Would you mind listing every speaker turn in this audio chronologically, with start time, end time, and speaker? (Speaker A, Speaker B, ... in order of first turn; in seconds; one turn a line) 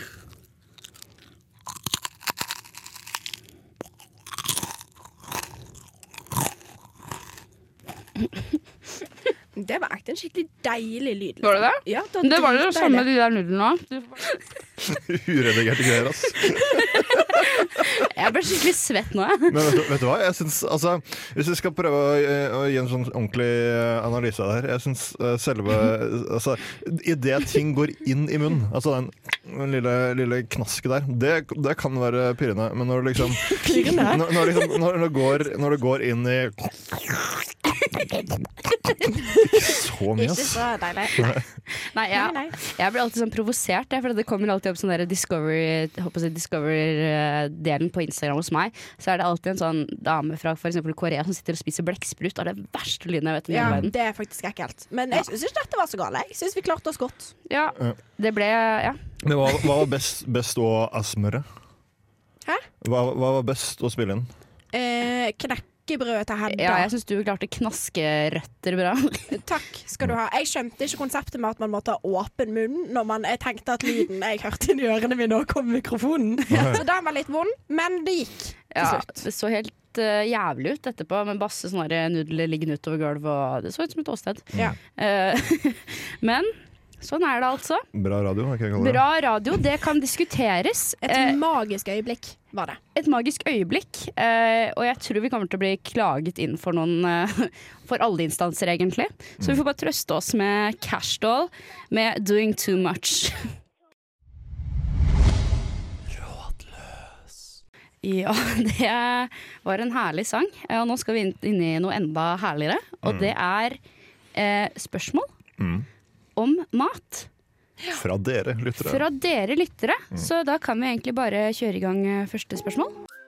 Speaker A: 9.5-13.1
Speaker B: 11.4-14.4
Speaker C: 14.8-17.3
Speaker B: 17.4-19.6
Speaker C: 19.5-41.4
Speaker A: 33.5-34.6
Speaker A: 40.1-41.4
Speaker B: 41.9-53.9
Speaker A: 42.1-42.5
Speaker A: 53.5-57.3
Speaker C: 53.6-53.8
Speaker B: 57.5-59.0
Speaker C: 59.2-61.5
Speaker C: 62.8-64.3
Speaker A: 64.7-66.9
Speaker B: 66.5-69.4
Speaker A: 69.3-79.2
Speaker C: 76.5-76.8
Speaker B: 78.7-87.8
Speaker C: 87.9-89.0
Speaker B: 88.8-91.4
Speaker A: 91.0-92.8
Speaker B: 92.9-103.5
Speaker B: 108.0-113.8
Speaker C: 113.0-113.3
Speaker B: 114.3-115.3
Speaker C: 115.6-115.8
Speaker B: 116.3-117.3
Speaker C: 117.9-119.0
Speaker B: 118.8-122.9